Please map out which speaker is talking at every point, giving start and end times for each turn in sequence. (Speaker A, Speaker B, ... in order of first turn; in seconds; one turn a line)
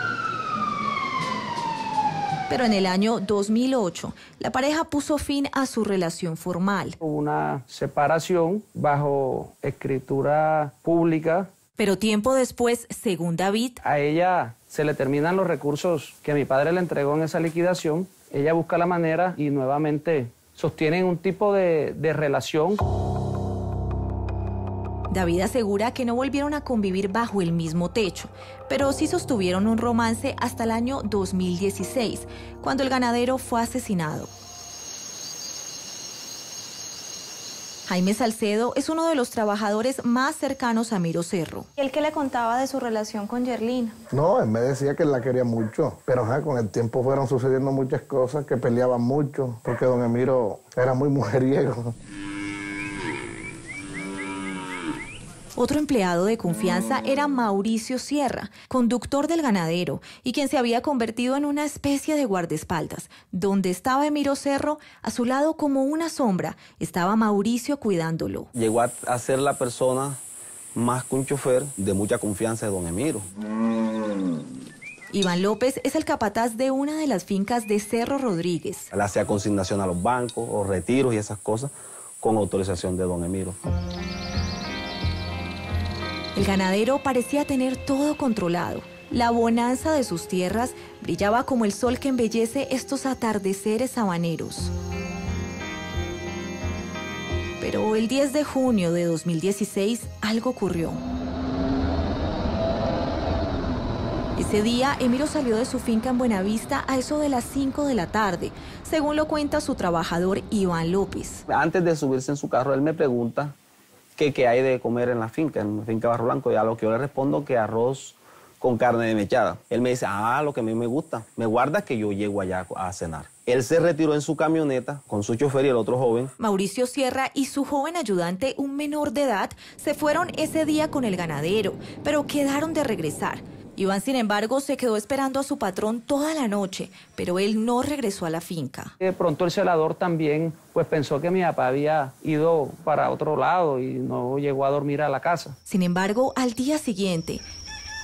Speaker A: 2.5-7.0
Speaker B: 7.0-11.5
Speaker A: 11.8-13.8
Speaker B: 13.8-22.8
Speaker A: 25.1-34.3
Speaker A: 37.9-41.7
Speaker C: 41.8-44.0
Speaker D: 44.1-51.9
Speaker A: 55.6-68.5
Speaker E: 68.5-70.2
Speaker E: 70.8-73.3
Speaker A: 75.1-78.9
Speaker E: 78.9-83.6
Speaker A: 86.3-94.7
Speaker A: 97.6-101.0
Speaker A: 104.4-111.4
Speaker E: 111.5-113.5
Speaker E: 114.2-126.3
Speaker A: 126.4-138.9
Speaker B: 139.0-145.5
Speaker A: 145.7-147.4